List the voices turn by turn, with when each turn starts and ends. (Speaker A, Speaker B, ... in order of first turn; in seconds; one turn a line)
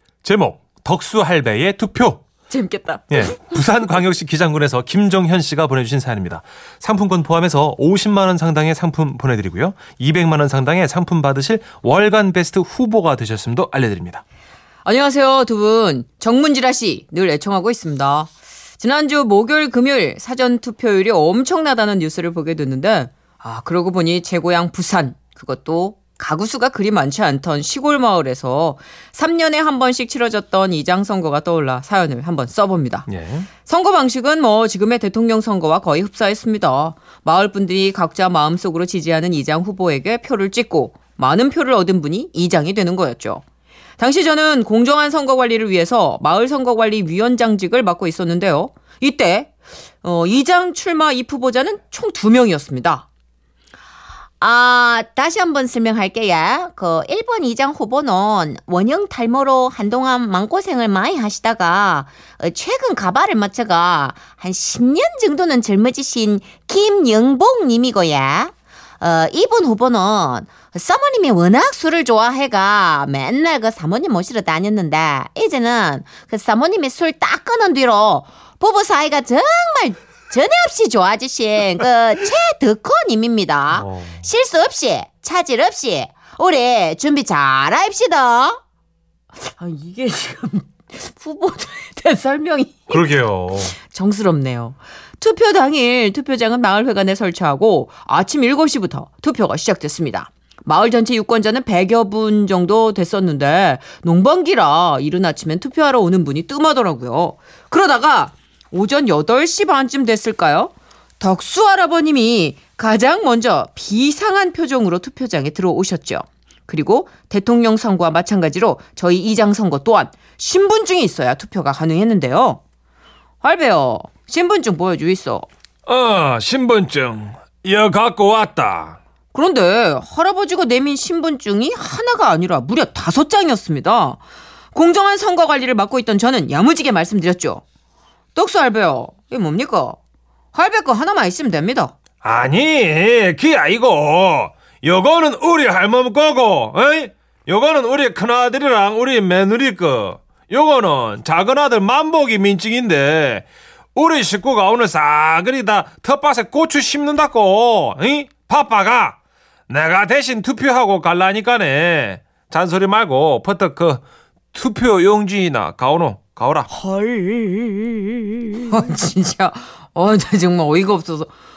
Speaker A: 0.2-2.2
Speaker B: 2.5-3.5
Speaker A: 3.1-14.2
Speaker B: 14.8-33.1
Speaker A: 33.1-33.5
Speaker B: 33.7-43.4
Speaker B: 44.0-53.1
Speaker B: 54.4-88.6
Speaker A: 83.7-84.2
Speaker B: 89.4-93.0
Speaker A: 92.9-93.8
Speaker B: 93.8-122.6
Speaker B: 123.4-125.5
Speaker A: 125.9-129.0
Speaker B: 129.3-134.2
Speaker B: 134.7-137.6
Speaker B: 138.3-140.0
Speaker B: 140.5-141.9
Speaker A: 142.2-159.2
Speaker A: 159.7-164.0
Speaker A: 164.5-166.7
Speaker B: 166.7-171.3